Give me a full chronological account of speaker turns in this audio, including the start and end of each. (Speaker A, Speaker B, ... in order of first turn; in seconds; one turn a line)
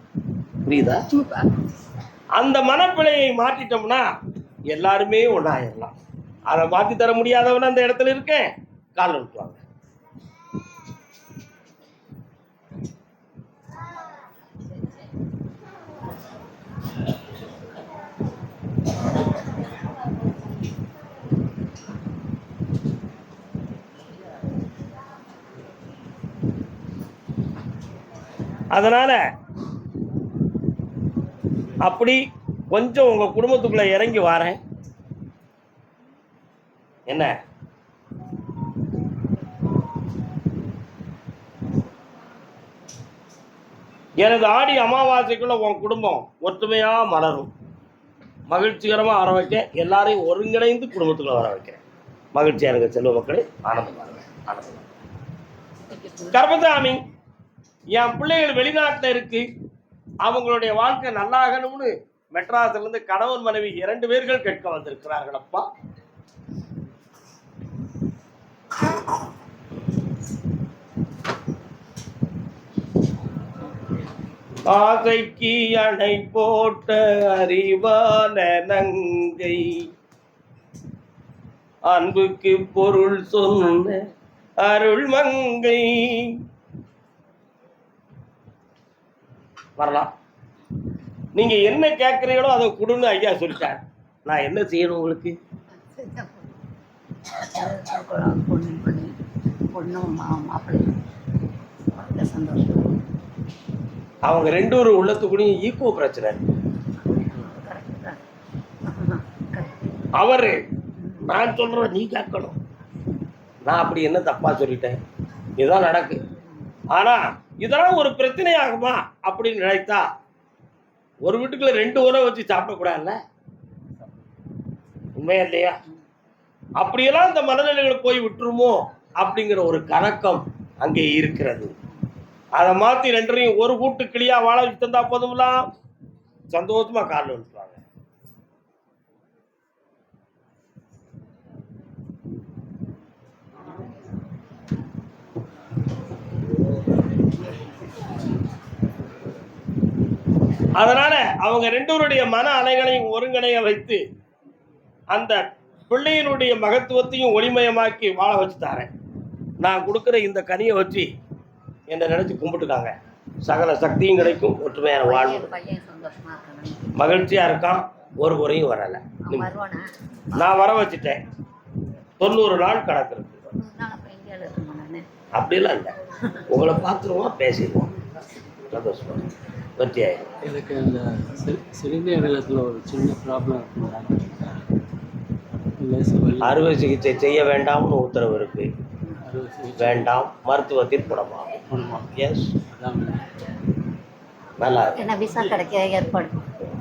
Speaker A: 0.7-1.1
Speaker A: 2.4-4.0
Speaker A: 4.7-5.9
Speaker A: 6.5-9.6
Speaker A: 28.7-29.2
Speaker A: 31.8-32.2
Speaker A: 32.7-34.6
Speaker A: 44.2-47.5
Speaker A: 48.5-51.8
Speaker A: 52.4-54.9
Speaker B: 55.9-56.4
Speaker A: 56.3-57.0
Speaker A: 58.0-59.5
Speaker A: 60.2-65.7
Speaker A: 74.7-79.8
Speaker A: 81.9-84.0
Speaker A: 84.6-86.3
Speaker A: 89.8-90.1
Speaker A: 91.4-95.4
Speaker B: 95.9-96.5
Speaker B: 97.4-99.1
Speaker B: 99.7-101.0
Speaker B: 102.0-103.0
Speaker A: 104.3-106.4
Speaker B: 107.1-108.2
Speaker B: 108.9-109.9
Speaker A: 110.2-110.6
Speaker A: 111.2-112.6
Speaker A: 113.7-115.0
Speaker A: 115.6-116.2
Speaker A: 116.9-120.0
Speaker A: 121.3-123.2
Speaker A: 125.2-125.8
Speaker A: 126.8-131.7
Speaker A: 132.6-135.7
Speaker A: 136.5-137.8
Speaker A: 150.8-154.0
Speaker A: 155.1-158.9
Speaker A: 159.6-161.1
Speaker A: 161.9-162.9
Speaker A: 163.4-165.5
Speaker B: 165.1-167.0
Speaker A: 167.0-169.5
Speaker B: 169.3-169.9
Speaker A: 170.3-171.2
Speaker A: 172.2-173.4
Speaker B: 173.6-175.1
Speaker A: 175.4-175.9
Speaker A: 176.5-177.9
Speaker A: 178.7-180.3
Speaker C: 180.4-184.5
Speaker C: 185.8-186.7
Speaker A: 186.4-188.7
Speaker C: 189.2-190.1
Speaker A: 189.8-191.6
Speaker C: 191.7-192.1
Speaker A: 192.1-192.5
Speaker C: 192.7-193.2
Speaker A: 194.6-195.0
Speaker B: 195.0-196.4